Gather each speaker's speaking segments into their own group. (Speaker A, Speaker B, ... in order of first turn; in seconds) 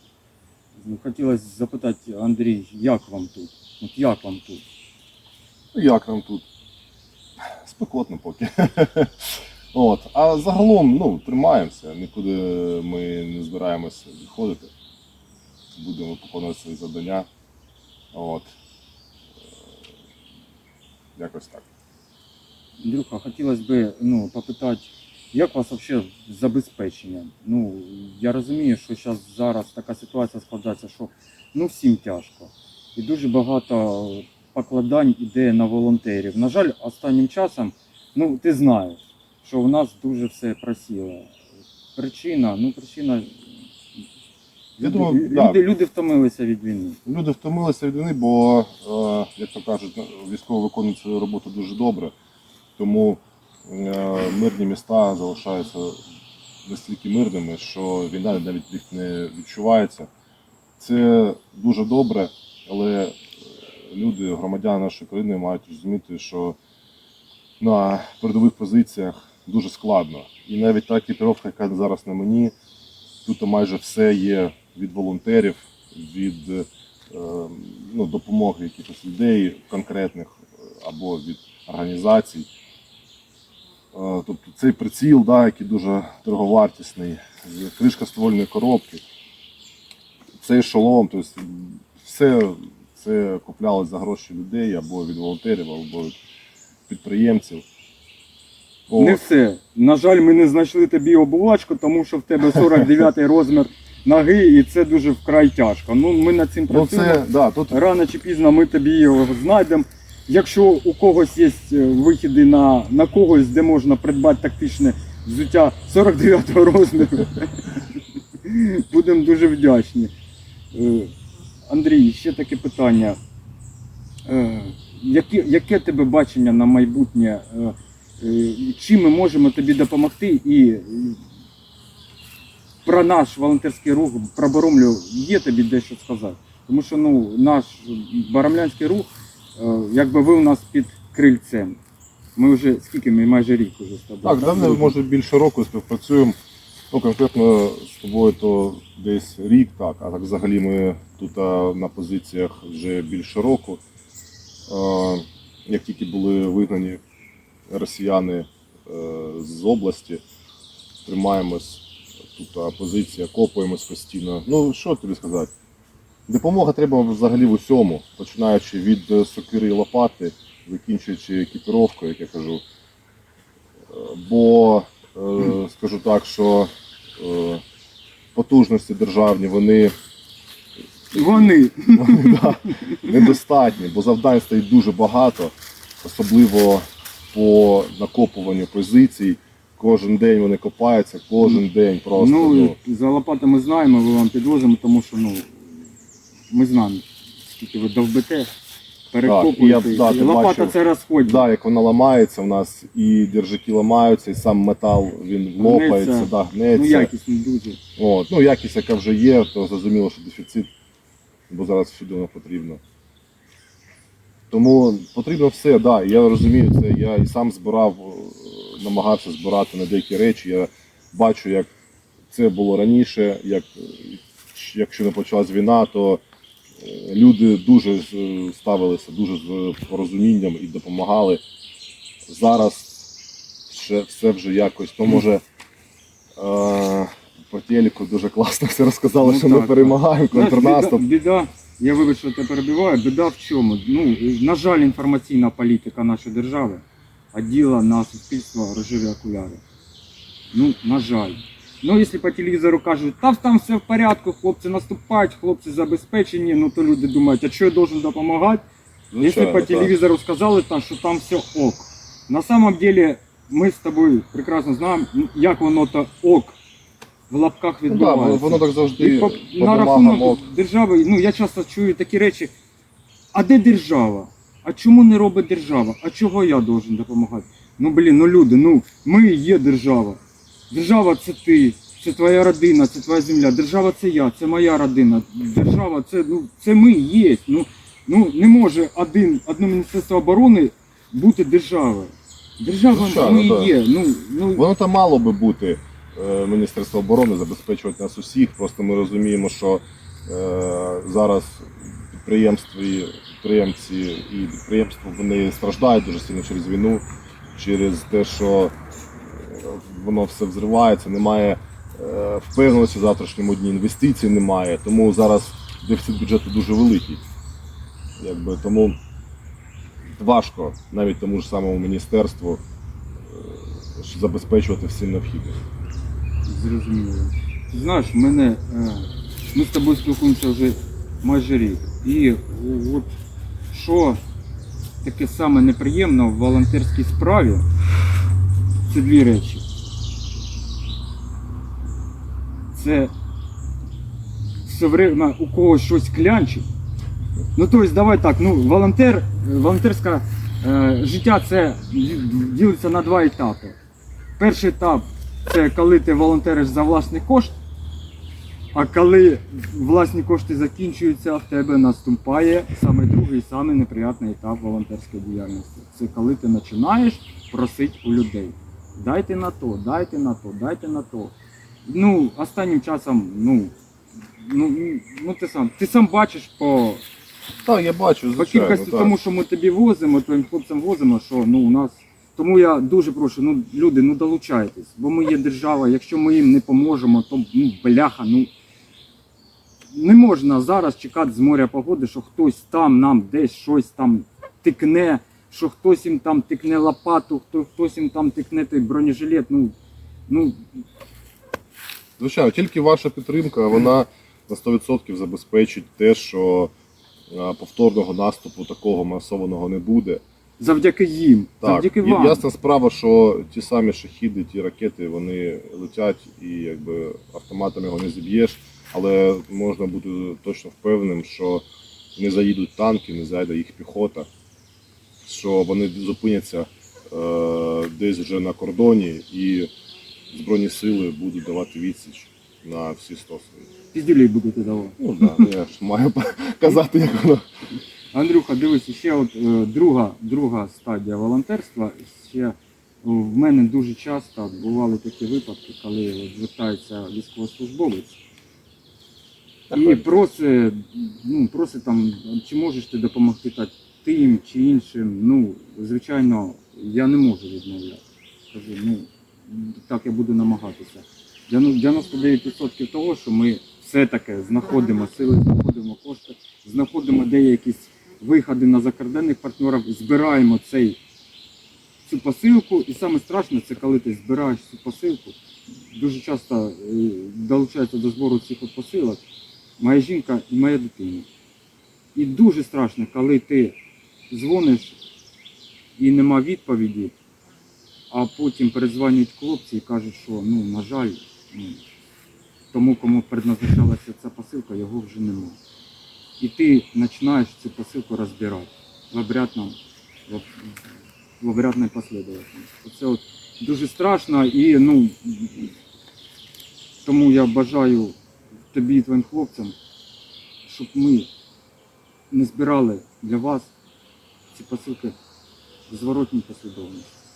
Speaker A: 0.8-4.6, 22.8-41.3, 42.0-43.3, 44.8-47.0, 98.9-117.8, 118.4-120.1, 120.7-121.1, 121.7-123.2, 124.3-131.2, 132.8-141.8, 142.4-144.9, 181.1-183.2, 192.2-195.8, 196.5-198.5, 199.1-201.5, 205.6-207.8, 239.2-249.6, 250.5-258.6, 259.2-266.6, 267.3-272.5, 273.3-294.6, 326.5-333.2, 333.7-334.2, 335.0-337.6, 338.9-339.6, 342.7-343.1, 344.6-346.7, 347.6-353.8, 354.4-357.6, 358.7-371.3, 371.9-373.7, 374.4-377.0, 378.4-388.5, 389.9-399.7, 400.3-400.6, 410.6-412.4, 433.9-435.5, 438.1-448.2, 449.7-471.0, 472.1-475.4, 475.9-479.2, 479.8-481.3, 482.1-483.8, 484.3-485.0, 486.0-487.1, 488.1-491.8, 492.7-495.6, 496.4-500.8, 501.4-505.7, 507.0-508.1, 508.7-509.8, 510.6-511.3, 512.3-513.7, 514.5-515.1, 515.9-517.1
Speaker B: 5.7-6.4, 7.5-14.7, 15.7-17.3, 18.1-18.5, 21.2-21.7, 44.8-45.6, 47.1-52.1, 52.8-56.0, 56.6-60.1, 60.8-63.2, 63.9-66.6, 67.6-72.5, 73.2-82.5, 83.9-89.0, 90.4-96.2, 96.9-97.7, 98.9-99.2, 106.7-107.8, 144.2-146.4, 146.9-153.8, 154.7-157.0, 157.7-160.2, 161.1-165.5, 166.3-172.6, 173.9-177.6, 178.3-179.9, 181.1-192.8, 199.2-207.1, 208.0-210.7, 211.5-212.8, 214.5-221.7, 222.3-226.2, 226.8-231.4, 232.3-233.1, 233.7-235.4, 236.4-241.0, 259.1-259.9, 267.9-270.4, 292.9-293.8, 294.6-308.8, 309.3-317.2, 318.2-319.0, 320.2-322.6, 323.3-325.6, 377.6-379.2, 402.2-406.7, 407.3-410.2, 411.6-421.6, 422.2-424.3, 425.2-429.7, 430.3-433.6, 435.0-437.4, 449.7-450.0